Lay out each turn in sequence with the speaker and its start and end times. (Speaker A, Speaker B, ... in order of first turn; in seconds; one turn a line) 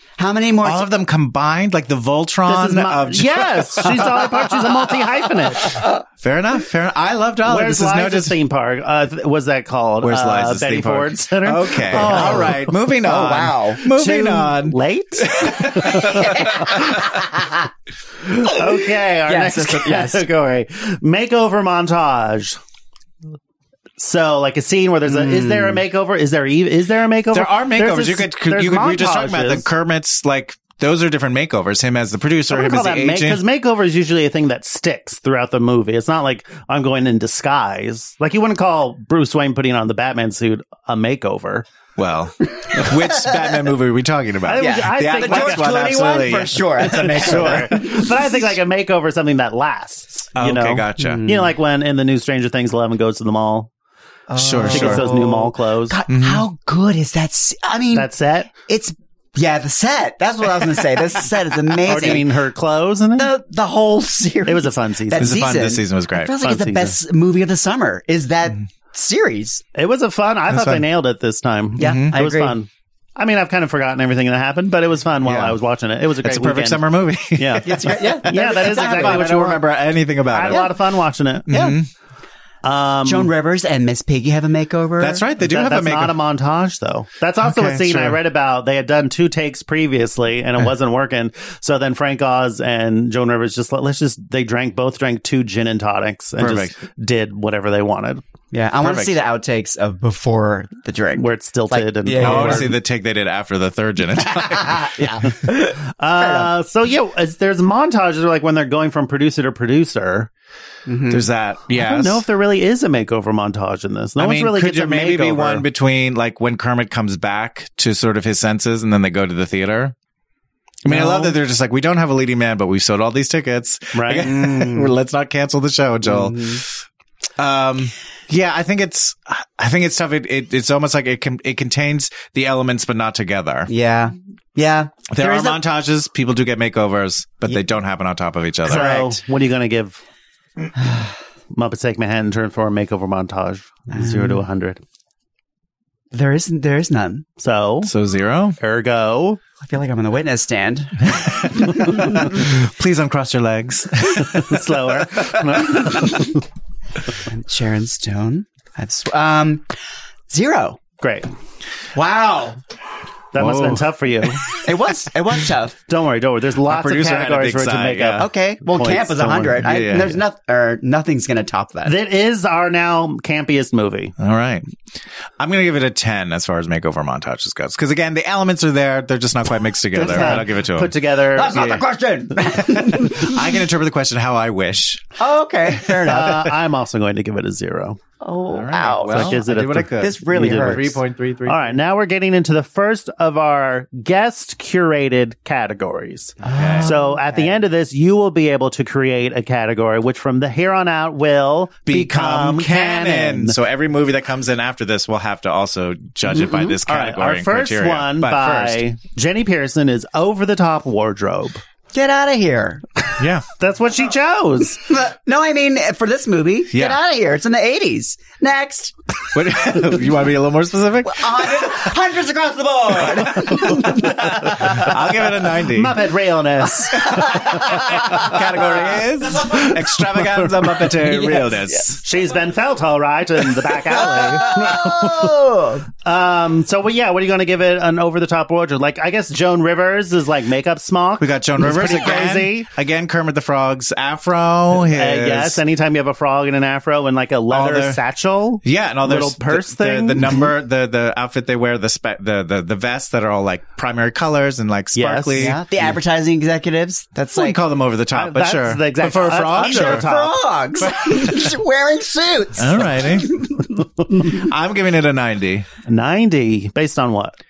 Speaker A: 0.2-0.9
Speaker B: 0.6-4.7
Speaker C: 2.5-5.8
Speaker B: 6.2-8.3
Speaker C: 7.5-16.9
Speaker B: 10.0-16.8
Speaker A: 11.9-13.9
Speaker A: 16.0-17.5
Speaker C: 18.4-22.6
Speaker A: 19.3-20.2
Speaker C: 24.0-29.7
Speaker A: 25.1-25.8
Speaker B: 27.3-33.4
Speaker C: 32.5-41.7
Speaker B: 42.0-47.7
Speaker C: 44.4-46.1
Speaker A: 44.6-48.1
Speaker C: 46.8-53.7
Speaker B: 50.4-51.2
Speaker A: 51.0-51.5
Speaker A: 54.3-58.1
Speaker B: 54.4-55.1
Speaker C: 54.7-56.0
Speaker B: 56.1-56.5
Speaker C: 57.9-58.5
Speaker A: 58.7-62.3
Speaker C: 61.9-63.3
Speaker A: 63.2-69.6
Speaker C: 64.5-65.5
Speaker B: 65.2-66.3
Speaker C: 66.4-67.0
Speaker C: 69.8-79.7
Speaker B: 70.5-70.8
Speaker A: 71.8-72.6
Speaker B: 71.8-72.2
Speaker B: 75.2-75.6
Speaker B: 76.2-80.7
Speaker A: 77.6-79.6
Speaker C: 80.3-81.5
Speaker B: 81.5-81.9
Speaker A: 81.5-81.8
Speaker C: 82.6-83.3
Speaker A: 83.0-85.2
Speaker B: 85.0-86.2
Speaker C: 85.4-98.2
Speaker B: 87.4-88.2
Speaker B: 96.4-96.8
Speaker A: 98.5-102.8
Speaker B: 98.8-99.2
Speaker C: 101.2-102.8
Speaker B: 102.2-105.1
Speaker A: 104.3-106.5
Speaker C: 105.9-110.3
Speaker A: 110.9-111.3
Speaker B: 111.1-112.2
Speaker C: 111.7-115.7
Speaker B: 114.2-120.0
Speaker B: 120.8-126.6
Speaker A: 120.9-121.4
Speaker C: 123.9-124.3
Speaker A: 124.3-124.9
Speaker A: 126.0-126.6
Speaker B: 127.4-133.7
Speaker A: 133.7-135.6
Speaker B: 135.1-139.1
Speaker C: 138.7-140.0
Speaker A: 138.7-139.2
Speaker A: 140.8-141.2
Speaker C: 141.5-144.8
Speaker A: 143.9-144.4
Speaker A: 146.1-147.2
Speaker C: 147.4-147.9
Speaker B: 147.8-148.6
Speaker C: 148.6-149.4
Speaker A: 149.6-152.3
Speaker B: 151.1-154.6
Speaker C: 154.3-156.4
Speaker A: 157.3-159.7
Speaker A: 160.3-160.8
Speaker C: 161.0-161.3
Speaker A: 161.9-162.6
Speaker C: 163.3-164.4
Speaker B: 163.4-163.8
Speaker A: 164.6-165.8
Speaker C: 165.9-169.8
Speaker B: 166.7-168.3
Speaker A: 168.2-172.0
Speaker B: 169.6-170.2
Speaker C: 171.8-174.2
Speaker B: 174.2-174.7
Speaker B: 175.4-180.9
Speaker A: 179.9-180.5
Speaker C: 180.0-181.8
Speaker A: 181.3-183.6
Speaker B: 181.5-181.8
Speaker B: 182.4-185.1
Speaker A: 185.2-186.5
Speaker C: 186.1-188.0
Speaker A: 188.2-189.4
Speaker B: 188.5-191.8
Speaker C: 189.1-190.9
Speaker A: 190.0-191.0
Speaker C: 191.5-203.6
Speaker A: 196.4-197.6
Speaker B: 196.5-196.9
Speaker B: 201.9-208.8
Speaker A: 206.3-206.8
Speaker C: 206.9-211.6
Speaker A: 211.9-212.8
Speaker B: 213.2-213.4
Speaker C: 213.6-214.8
Speaker A: 214.9-219.0
Speaker B: 219.3-221.8
Speaker A: 221.1-224.9
Speaker B: 223.4-223.8
Speaker B: 224.3-226.0
Speaker C: 225.7-228.2
Speaker A: 227.0-228.8
Speaker B: 227.1-232.0
Speaker C: 229.4-230.7
Speaker A: 231.0-231.9
Speaker C: 232.0-235.4
Speaker A: 233.9-235.9
Speaker C: 236.0-242.7
Speaker B: 241.2-245.6
Speaker C: 244.7-250.5
Speaker B: 247.5-248.0
Speaker B: 248.6-255.6
Speaker C: 254.9-255.6
Speaker A: 255.4-257.6
Speaker B: 257.3-260.1
Speaker C: 258.1-260.4
Speaker A: 259.5-263.8
Speaker B: 260.8-261.5
Speaker B: 262.6-263.5
Speaker B: 264.1-265.7
Speaker C: 265.9-267.4